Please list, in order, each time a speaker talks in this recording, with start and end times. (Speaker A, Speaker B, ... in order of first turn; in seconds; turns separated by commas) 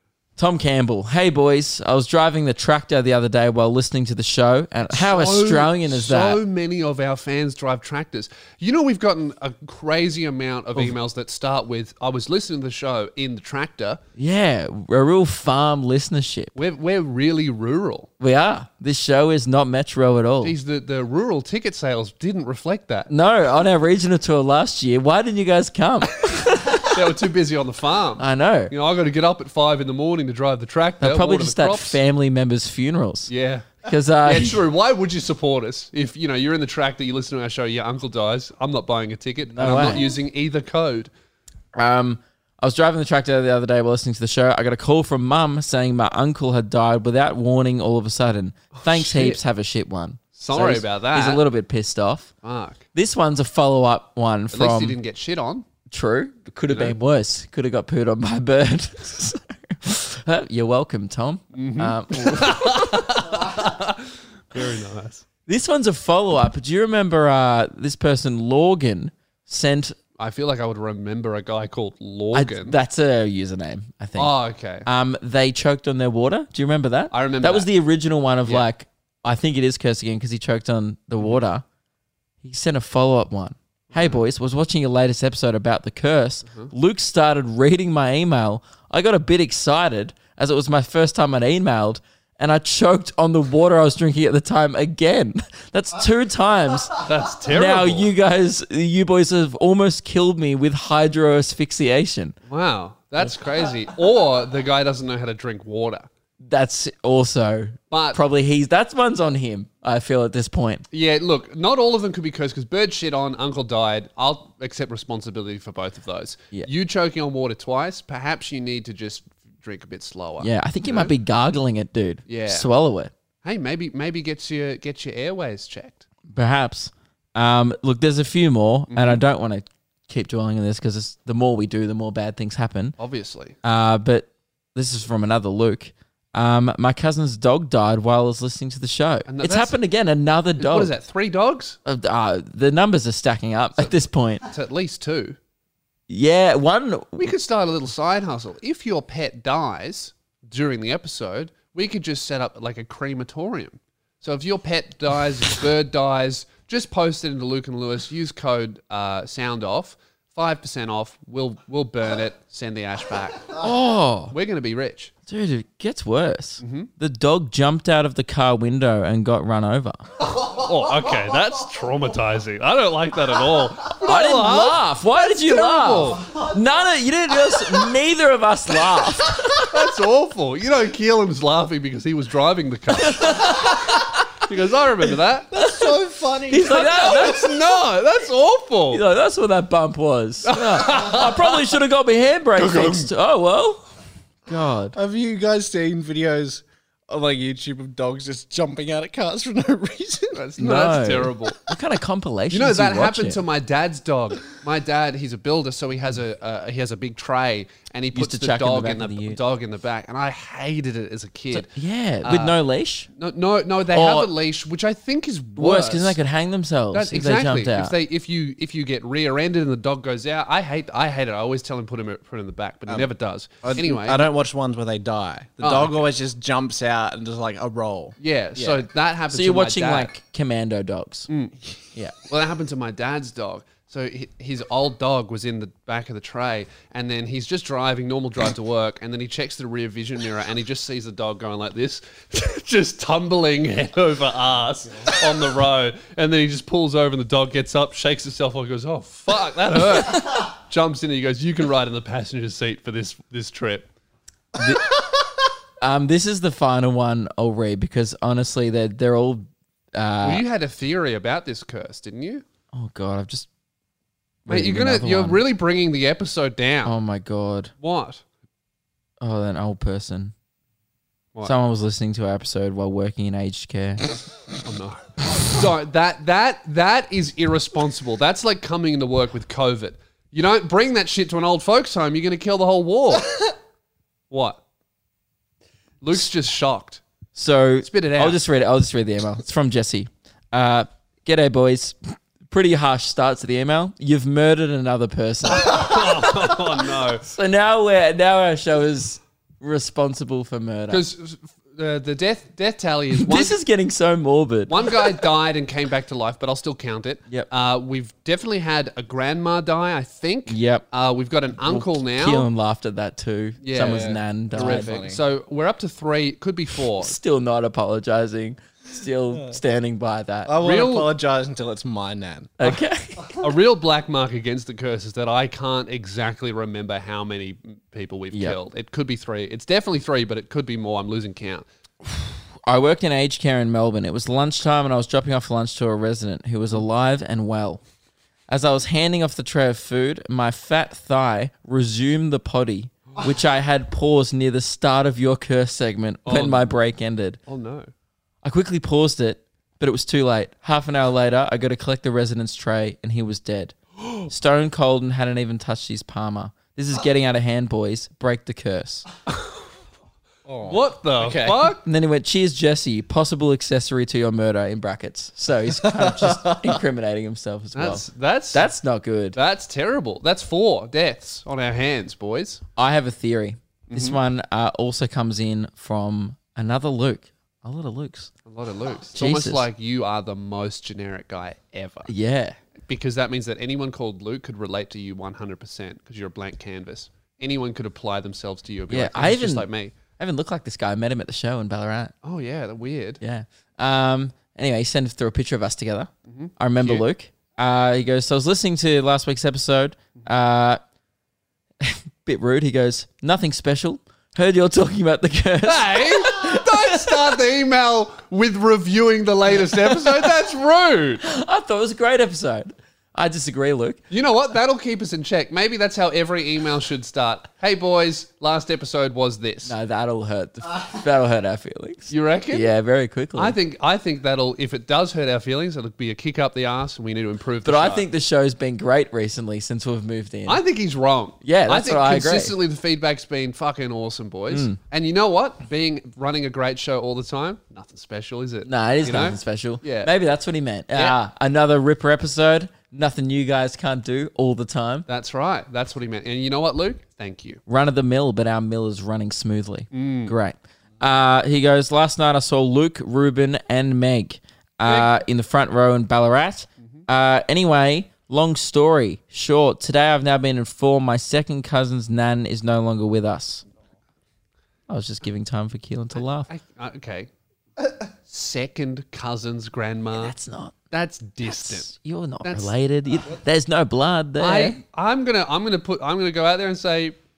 Speaker A: 0.4-6.4, Speaker B: 4.9-14.0, Speaker A: 14.2-16.5, Speaker B: 16.5-18.1, Speaker A: 18.2-20.6, Speaker B: 20.4-23.1, Speaker A: 23.1-26.9, Speaker B: 26.7-32.0, Speaker A: 28.2-28.7, Speaker A: 31.0-33.3, Speaker B: 33.3-41.1, Speaker A: 33.8-34.6, Speaker A: 39.5-40.1, Speaker A: 41.7-52.3, Speaker B: 48.7-49.4, Speaker B: 50.4-51.4, Speaker B: 52.4-52.8, Speaker A: 52.9-55.0, Speaker B: 54.5-55.6, Speaker A: 55.9-63.0, Speaker B: 56.7-57.0, Speaker B: 61.5-65.2, Speaker A: 65.5-70.0, Speaker B: 70.2-72.8, Speaker A: 72.3-81.6, Speaker B: 74.2-74.9, Speaker B: 77.1-77.7, Speaker A: 82.4-102.3, Speaker B: 83.9-84.2, Speaker B: 97.0-98.1, Speaker B: 102.5-106.1, Speaker A: 106.4-110.8, Speaker B: 107.9-108.2, Speaker B: 110.9-121.1, Speaker A: 120.4-123.1, Speaker B: 122.3-122.7, Speaker B: 123.4-126.0, Speaker A: 126.3-132.9, Speaker B: 128.9-129.2, Speaker B: 133.0-133.5, Speaker A: 133.6-140.9, Speaker B: 139.3-139.8, Speaker B: 140.6-141.8, Speaker A: 141.8-144.4, Speaker B: 143.8-145.4, Speaker A: 146.1-147.3, Speaker B: 147.2-163.6, Speaker A: 163.6-164.3, Speaker B: 164.3-165.1, Speaker A: 165.3-170.0, Speaker B: 166.6-166.9, Speaker B: 170.3-176.3, Speaker A: 174.0-179.7, Speaker B: 179.6-185.6, Speaker A: 183.0-184.2, Speaker C: 185.5-187.4, Speaker A: 186.5-187.5, Speaker B: 186.7-189.0, Speaker A: 188.9-193.8, Speaker B: 190.4-191.7, Speaker B: 192.6-193.1, Speaker A: 194.5-195.0, Speaker C: 194.9-200.4, Speaker B: 200.3-201.6, Speaker A: 200.6-203.4, Speaker B: 202.5-211.7, Speaker A: 208.1-209.4, Speaker A: 211.5-213.1, Speaker B: 212.2-212.6, Speaker B: 213.1-216.2, Speaker A: 213.9-214.3, Speaker A: 215.6-217.9, Speaker B: 216.9-224.2, Speaker C: 223.6-228.8, Speaker B: 225.6-226.0, Speaker B: 228.2-230.1, Speaker A: 229.3-231.3, Speaker B: 231.3-231.6, Speaker B: 232.2-253.9, Speaker A: 254.6-255.0, Speaker A: 255.8-260.4, Speaker B: 260.2-262.4, Speaker A: 262.7-263.5, Speaker A: 264.4-265.4, Speaker B: 264.5-266.9, Speaker A: 266.8-267.7, Speaker B: 267.8-268.2, Speaker A: 269.2-270.3, Speaker A: 271.4-274.1, Speaker B: 274.6-283.5, Speaker B: 284.3-284.6, Speaker B: 286.0-287.0, Speaker A: 287.4-296.6, Speaker B: 287.8-288.4, Speaker B: 295.5-297.2, Speaker A: 297.2-301.1, Speaker B: 300.9-303.6, Speaker A: 303.1-305.1, Speaker B: 304.7-312.5, Speaker A: 310.5-310.9, Speaker A: 311.6-314.9, Speaker B: 313.6-317.1, Speaker C: 313.8-315.2, Speaker A: 317.0-320.5, Speaker C: 320.4-322.5, Speaker B: 320.6-321.1, Speaker A: 322.6-323.4, Speaker B: 323.3-331.6, Speaker A: 332.1-337.8, Speaker A: 338.5-347.4, Speaker B: 346.2-346.7, Speaker B: 347.5-347.9, Speaker A: 348.4-359.1, Speaker C: 360.4-361.7, Speaker B: 360.6-361.8, Speaker A: 361.8-369.4, Speaker C: 365.9-366.5, Speaker B: 367.7-368.7, Speaker B: 369.3-372.6, Speaker A: 372.8-378.3, Speaker B: 373.9-374.2, Speaker B: 378.4-382.1, Speaker A: 379.1-379.6, Speaker A: 382.1-382.6, Speaker B: 382.9-389.9, Speaker A: 388.9-389.6, Speaker A: 390.2-392.1, Speaker B: 392.2-393.2, Speaker A: 393.2-400.8, Speaker B: 396.3-397.0, Speaker A: 401.8-407.3, Speaker B: 405.6-411.2, Speaker A: 411.2-414.0, Speaker B: 414.1-419.7, Speaker A: 419.6-423.6, Speaker B: 422.1-422.7, Speaker B: 423.4-428.0, Speaker A: 427.6-430.6, Speaker B: 430.5-440.1, Speaker A: 431.4-432.5, Speaker A: 434.5-434.8, Speaker A: 438.6-445.1, Speaker B: 445.1-447.6, Speaker A: 447.7-463.6, Speaker B: 449.9-450.3, Speaker B: 454.8-455.1, Speaker A: 464.9-466.5, Speaker B: 466.5-467.3, Speaker B: 468.3-470.3, Speaker A: 470.1-470.8, Speaker B: 470.9-471.9, Speaker A: 471.4-474.8, Speaker B: 472.4-472.7, Speaker B: 474.4-477.2